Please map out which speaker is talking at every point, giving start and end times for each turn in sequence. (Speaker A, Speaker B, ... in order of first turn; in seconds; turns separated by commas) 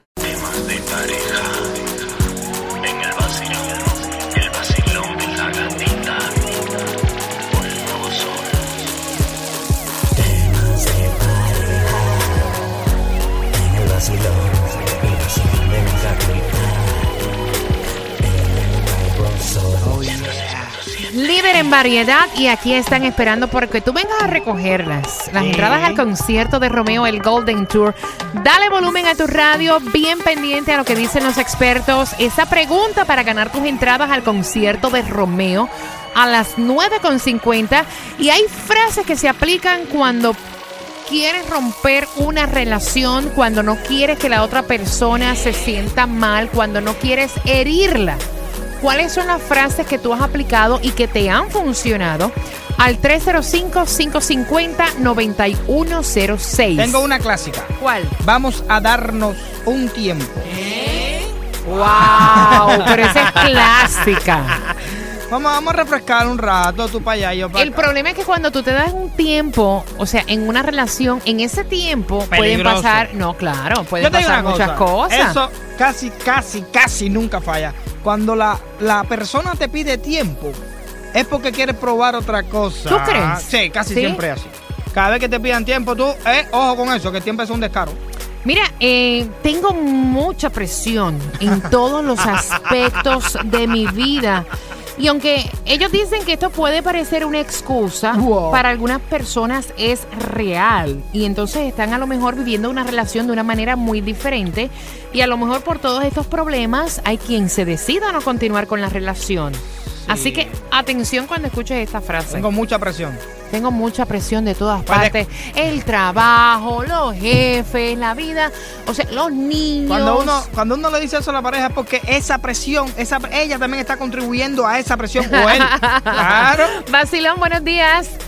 Speaker A: 0.2-1.7, Speaker A: 2.8-6.4, Speaker A: 7.5-8.6, Speaker A: 10.1-12.6, Speaker A: 13.5-17.1, Speaker A: 18.2-20.6, Speaker B: 19.8-20.8, Speaker C: 21.0-40.4, Speaker B: 25.4-26.0, Speaker C: 41.0-48.2, Speaker C: 48.8-57.0, Speaker B: 56.8-60.5, Speaker C: 57.8-58.1, Speaker C: 61.6-64.6, Speaker B: 62.0-63.4, Speaker B: 64.8-67.9, Speaker C: 67.5-75.4, Speaker B: 72.3-73.1, Speaker B: 74.0-80.6, Speaker B: 81.1-88.0, Speaker C: 82.9-84.2, Speaker C: 88.4-112.5, Speaker B: 98.1-98.6, Speaker B: 110.0-110.6, Speaker B: 112.3-113.2, Speaker C: 113.5-120.5, Speaker B: 114.9-115.2, Speaker B: 119.9-126.8, Speaker C: 125.2-128.2